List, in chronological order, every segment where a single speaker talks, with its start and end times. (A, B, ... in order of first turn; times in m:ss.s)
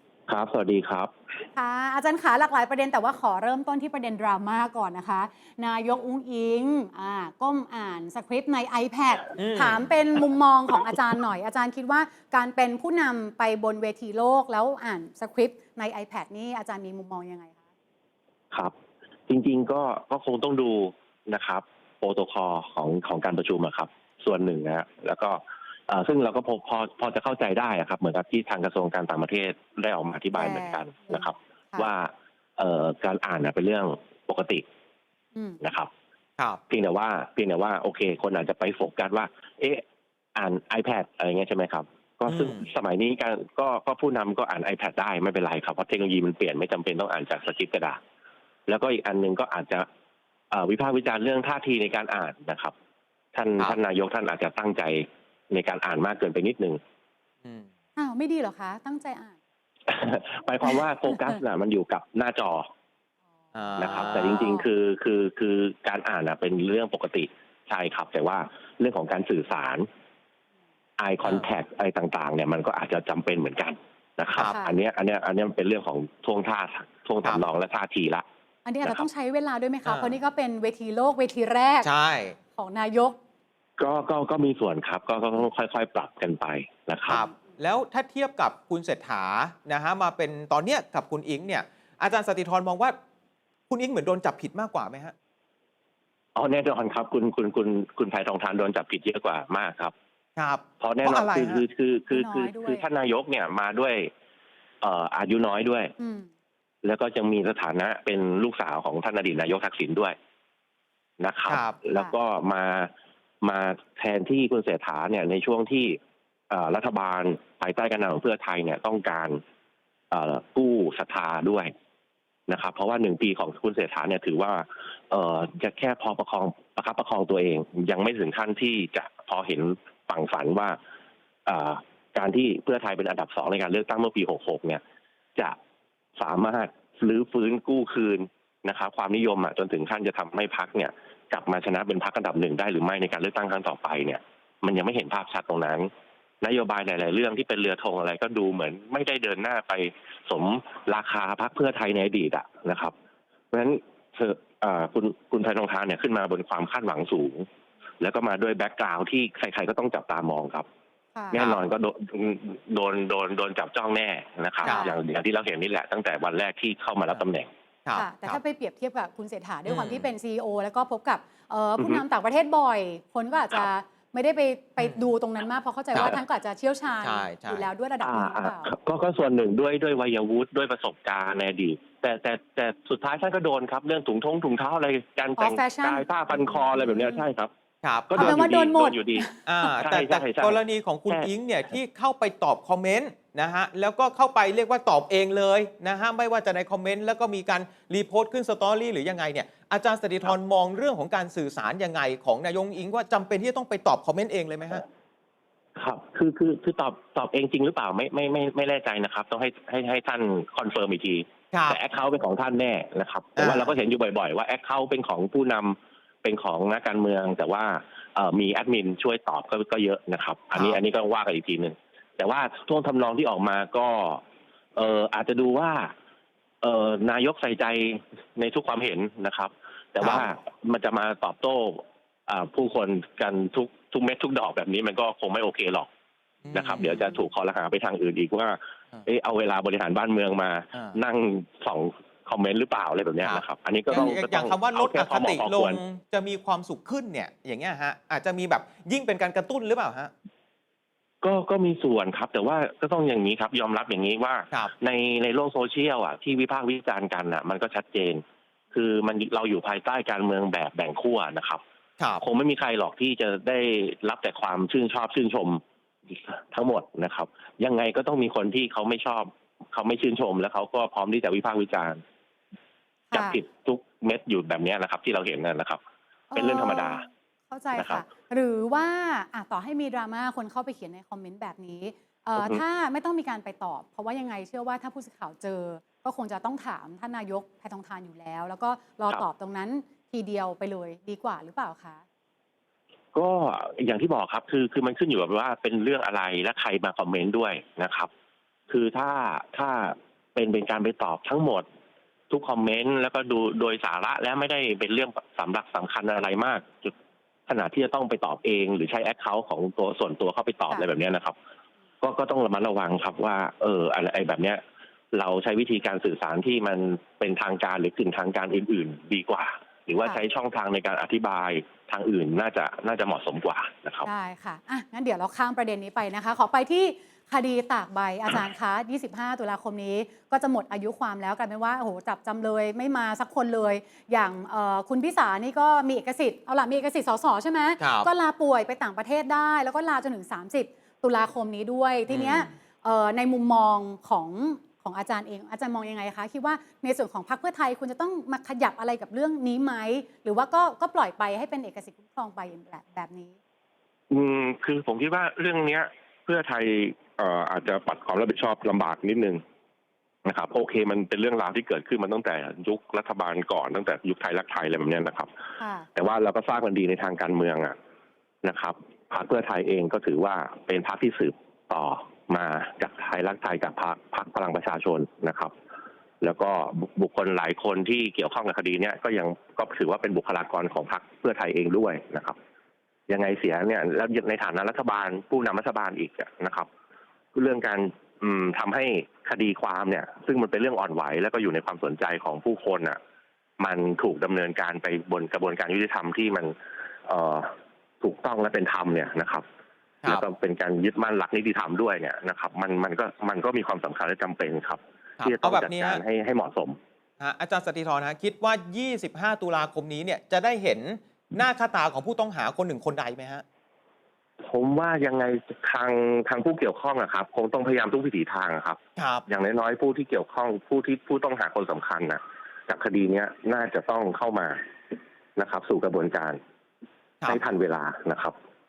0:00.3-0:01.1 A
0:01.6-0:17.6 B
0:09.4-0:09.8 C
0:19.3-0:34.6 A
0:30.4-0:31.9 B
0:35.6-0:35.9 A
0:36.7-0:39.8 A
0:40.4-0:48.0 A
0:42.3-0:42.6 C
0:48.7-0:49.9 A
0:50.5-0:52.7 A
0:53.3-0:56.8 A
0:58.0-0:59.4 B
0:59.9-1:02.7 A
1:03.6-1:04.6 C
1:03.8-1:09.9 A
1:04.2-1:04.6 B
1:11.0-1:18.2 A
1:14.4-1:14.8 B
1:18.7-1:21.9 B
1:19.8-1:20.2 C
1:21.8-1:22.4 C
1:22.6-1:23.2 B
1:23.8-1:27.2 A
1:27.1-1:33.0 C
1:33.7-1:35.1 C
1:36.4-1:39.9 A
1:40.4-1:41.6 C
1:40.8-1:44.1 A
1:42.1-1:42.8 B
1:44.8-1:45.9 A
1:46.0-1:46.3 B
1:46.8-1:50.2 A
1:51.2-1:52.9 A
1:51.5-1:51.8 C
1:53.4-1:56.0 A
1:56.5-1:59.4 A
2:00.1-2:01.7 A
2:02.5-2:10.8 A
2:11.5-2:14.8 A
2:16.2-2:25.9 A
2:26.4-2:32.9 A
2:33.5-2:37.5 A
2:38.0-2:40.7 A
2:41.2-2:41.4 B
2:41.3-2:47.5 A
2:41.4-2:41.6 C
2:44.6-2:44.9 C
2:44.6-2:45.0 B
2:47.8-2:48.4 C
2:48.0-2:58.7 B
2:49.7-2:50.1 C
2:51.8-2:52.0 A
2:54.8-2:55.0 C
2:57.0-2:57.7 C
2:58.0-3:07.5 A
3:05.4-3:07.2 B
3:07.8-3:08.5 C
3:08.1-3:11.3 A
3:08.2-3:09.7 B
3:09.5-3:24.8 C
3:25.8-3:44.2 A
3:31.5-3:31.8 C
3:33.4-3:33.7 C
3:40.6-3:40.8 C
3:44.8-3:45.9 A
3:46.6-3:55.9 A
3:56.4-3:57.1 C
3:56.5-4:05.8 A
4:03.2-4:10.1 C
4:11.2-4:21.6 A
4:22.2-4:32.0 A
4:33.1-4:33.4 B
4:33.1-4:35.8 A
4:36.3-4:52.0 B
4:36.4-4:37.0 A
4:37.8-4:38.0 A
4:53.1-4:58.1 A
4:58.7-5:01.6 A
5:02.3-5:06.9 A
5:07.5-5:11.4 A
5:12.0-5:14.6 A
5:15.1-5:24.1 A
5:24.0-5:53.4 B
5:37.8-5:38.1 C
5:42.1-5:42.5 C
5:54.1-5:59.4 A
6:00.2-6:05.3 A
6:05.6-6:05.9 B
6:06.0-6:07.8 A
6:08.4-6:15.5 A
6:16.2-6:22.4 A
6:23.1-6:26.7 A
6:27.4-6:33.0 A
6:33.6-6:36.6 A
6:37.1-6:39.4 A
6:40.1-6:46.8 A
6:45.2-6:46.0 C
6:47.2-6:53.4 C
6:54.4-7:04.6 A
6:59.0-6:59.2 C
7:05.4-7:06.4 A
7:07.3-7:08.4 A